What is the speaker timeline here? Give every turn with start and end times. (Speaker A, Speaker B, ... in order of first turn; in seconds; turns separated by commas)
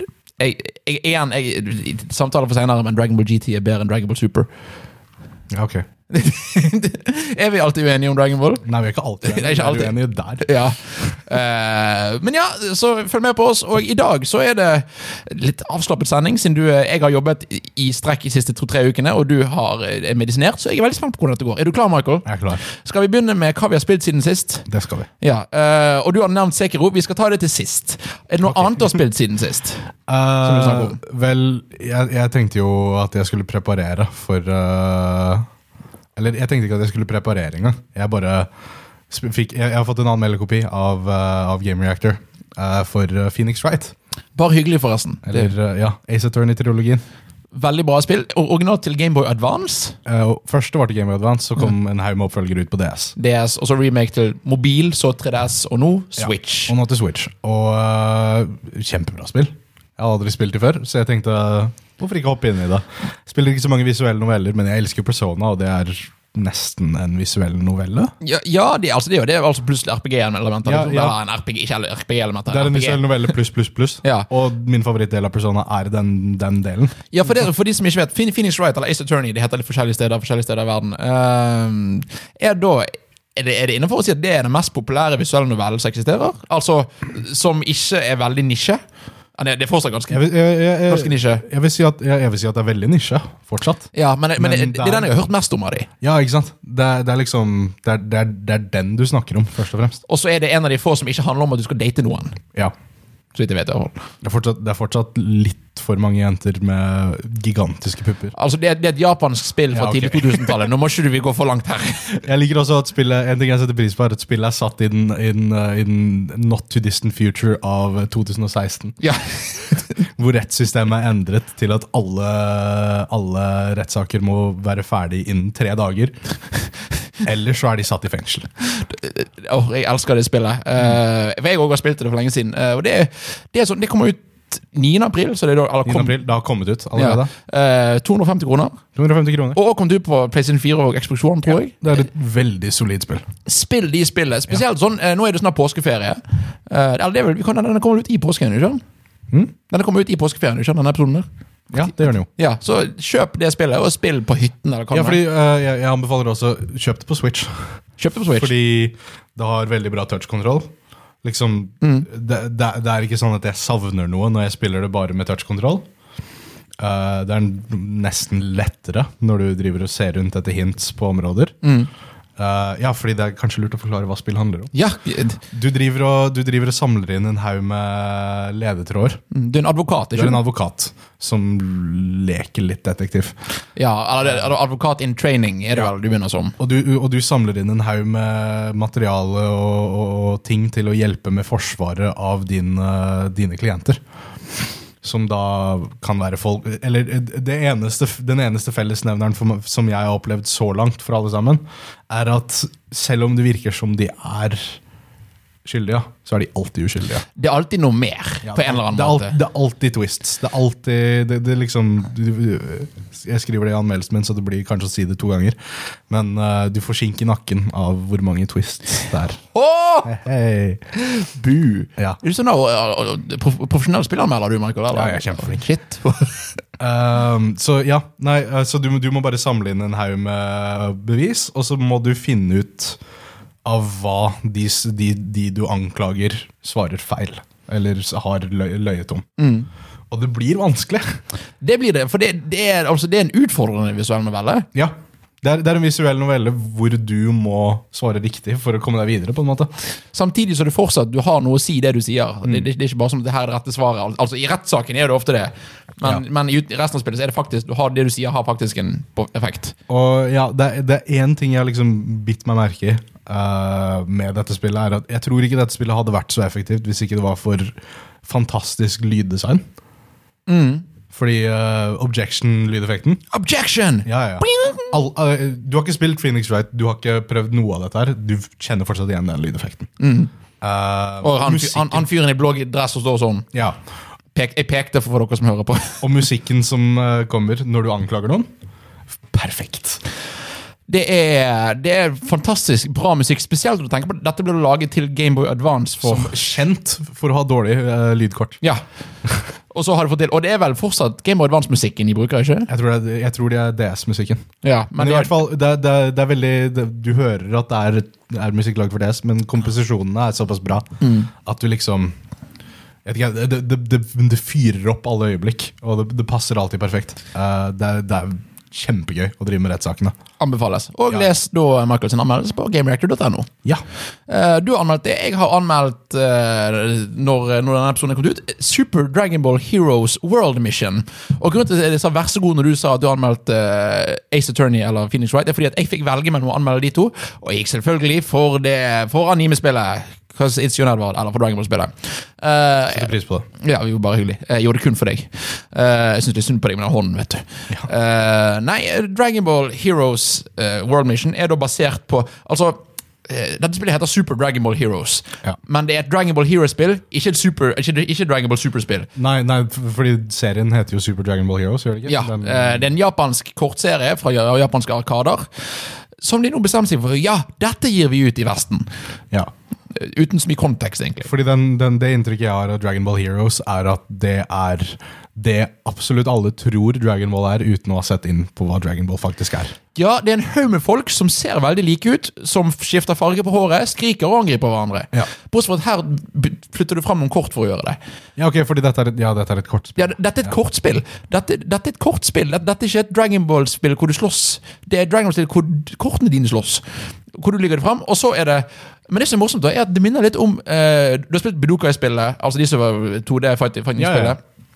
Speaker A: 0.4-4.5, Speaker B: 5.5-5.8, Speaker A: 6.1-8.6, Speaker B: 8.6-10.5, Speaker A: 9.2-24.7, Speaker B: 22.2-22.6, Speaker B: 24.7-25.1, Speaker A: 25.2-29.9, Speaker B: 28.4-29.0, Speaker B: 30.1-35.5, Speaker A: 30.4-31.0, Speaker B: 36.2-38.5, Speaker B: 39.1-43.9, Speaker A: 44.4-45.5, Speaker B: 45.2-47.0, Speaker A: 47.5-50.0, Speaker B: 50.1-53.1, Speaker A: 53.2-56.8, Speaker B: 56.2-68.1, Speaker A: 68.2-73.1, Speaker B: 70.6-71.2, Speaker B: 72.5-77.0, Speaker A: 74.0-74.3, Speaker A: 77.1-88.8, Speaker A: 89.4-90.3, Speaker B: 90.1-95.1, Speaker A: 90.8-91.4, Speaker A: 93.9-95.9, Speaker B: 96.0-100.0, Speaker A: 100.1-102.4, Speaker A: 103.3-104.0, Speaker B: 104.2-108.3, Speaker A: 108.3-112.2, Speaker B: 109.7-110.5, Speaker B: 112.2-119.0, Speaker A: 119.0-119.9, Speaker B: 120.1-126.2, Speaker B: 127.2-128.5, Speaker A: 128.7-136.2, Speaker B: 135.8-137.3, Speaker A: 136.9-138.8, Speaker B: 139.0-139.6, Speaker A: 139.5-141.8, Speaker B: 141.5-143.2, Speaker A: 143.5-148.8, Speaker A: 149.7-151.2, Speaker B: 151.7-152.3, Speaker A: 151.8-155.2, Speaker B: 154.9-157.7, Speaker A: 158.0-158.5, Speaker B: 158.3-160.7, Speaker B: 161.2-165.9, Speaker A: 161.8-162.1, Speaker B: 166.8-171.6, Speaker A: 171.6-171.9, Speaker B: 172.4-174.7, Speaker A: 174.7-175.4, Speaker B: 175.5-179.2, Speaker A: 179.3-180.4, Speaker B: 180.2-183.3, Speaker A: 183.8-186.6, Speaker B: 184.2-184.5, Speaker B: 186.6-194.0, Speaker B: 195.0-204.8, Speaker B: 205.7-207.2, Speaker A: 207.3-209.3, Speaker B: 208.4-215.6, Speaker B: 216.1-219.4, Speaker A: 219.5-220.1, Speaker B: 220.0-220.8, Speaker A: 220.9-226.5, Speaker B: 224.9-225.6, Speaker B: 226.8-233.0, Speaker B: 233.7-239.3, Speaker A: 239.4-239.7, Speaker B: 240.1-241.2, Speaker A: 241.6-244.7, Speaker B: 244.7-249.7, Speaker A: 250.1-259.8, Speaker B: 259.9-269.6, Speaker A: 270.5-270.9, Speaker B: 271.1-273.2, Speaker A: 273.3-275.0, Speaker B: 274.0-279.9, Speaker A: 280.0-280.3, Speaker B: 280.6-282.1, Speaker A: 281.2-283.5, Speaker A: 284.4-286.2, Speaker B: 286.0-288.5, Speaker B: 289.3-290.0, Speaker A: 290.9-296.4, Speaker B: 296.0-298.6, Speaker A: 299.7-302.7, Speaker B: 302.7-304.5, Speaker A: 304.6-305.4, Speaker B: 305.0-312.1, Speaker A: 311.0-311.3, Speaker B: 313.0-320.1, Speaker A: 320.4-323.5, Speaker A: 324.3-359.1, Speaker B: 342.9-343.5, Speaker B: 359.1-362.9, Speaker A: 362.1-365.5, Speaker A: 366.2-368.9, Speaker A: 369.9-371.3, Speaker B: 371.2-379.8, Speaker A: 379.9-388.0, Speaker B: 388.4-390.5, Speaker A: 390.0-404.4, Speaker B: 404.0-404.4